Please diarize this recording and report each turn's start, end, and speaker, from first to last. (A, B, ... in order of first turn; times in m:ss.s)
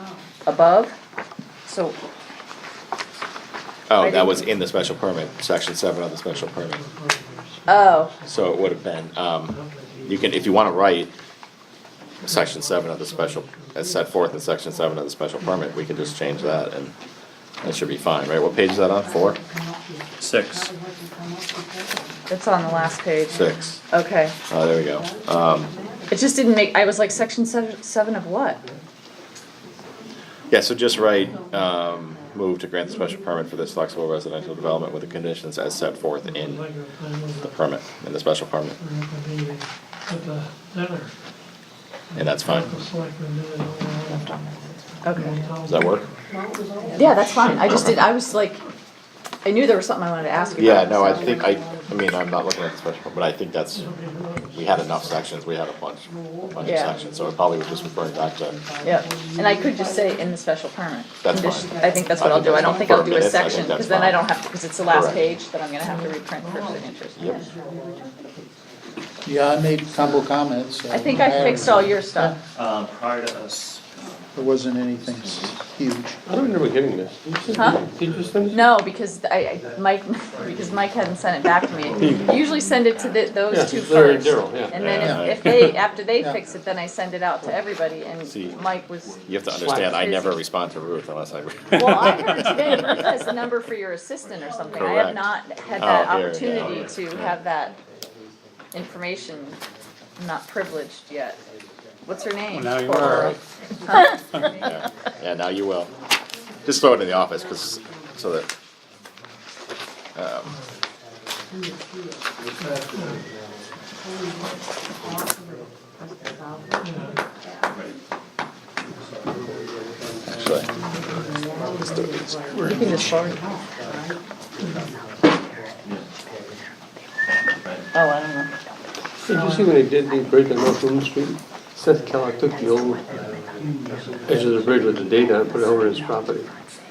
0:00.4-0:00.9 A
0:01.7-0:02.0 A
0:03.9-0:06.8 B
0:04.0-0:04.5 A
0:07.7-0:08.1 A
0:08.2-0:11.1 B
0:12.2-0:16.9 B
0:17.6-0:19.4 B
0:20.2-0:20.7 C
0:22.3-0:23.4 A
0:23.3-0:23.8 B
0:23.9-0:24.3 A
0:24.5-0:25.7 B
0:26.1-0:28.6 A
0:30.5-0:36.7 B
0:37.4-0:38.8 B
0:42.1-0:42.8 B
0:45.0-0:45.4 A
0:45.6-0:46.0 B
0:46.9-0:48.6 A
0:47.6-0:48.0 B
0:49.4-0:51.4 A
0:50.6-0:53.9 B
0:54.5-0:58.6 B
0:56.6-0:56.9 A
0:58.8-1:07.4 A
1:01.2-1:04.2 B
1:04.8-1:05.2 B
1:07.2-1:07.4 B
1:09.2-1:12.4 D
1:10.9-1:12.4 A
1:14.3-1:16.2 D
1:16.2-1:18.6 E
1:18.5-1:29.2 A
1:22.0-1:22.3 C
1:23.5-1:25.2 E
1:24.8-1:25.6 B
1:25.0-1:25.3 D
1:28.3-1:28.6 B
1:29.2-1:33.0 B
1:29.5-1:29.9 E
1:29.8-1:30.4 A
1:31.7-1:37.8 A
1:32.2-1:32.6 C
1:34.7-1:35.2 B
1:35.8-1:37.3 B
1:38.7-1:39.6 A
1:40.2-1:41.4 A
1:42.0-1:43.3 A
1:42.5-1:43.4 C
1:43.0-1:43.4 B
1:43.8-1:44.4 A
1:44.4-1:45.9 B
1:46.6-1:48.5 B
1:50.2-1:50.6 B
2:00.3-2:00.7 B
2:01.9-2:02.3 B
2:02.5-2:03.4 E
2:07.9-2:08.5 A
2:09.2-2:13.2 E
2:14.2-2:16.5 E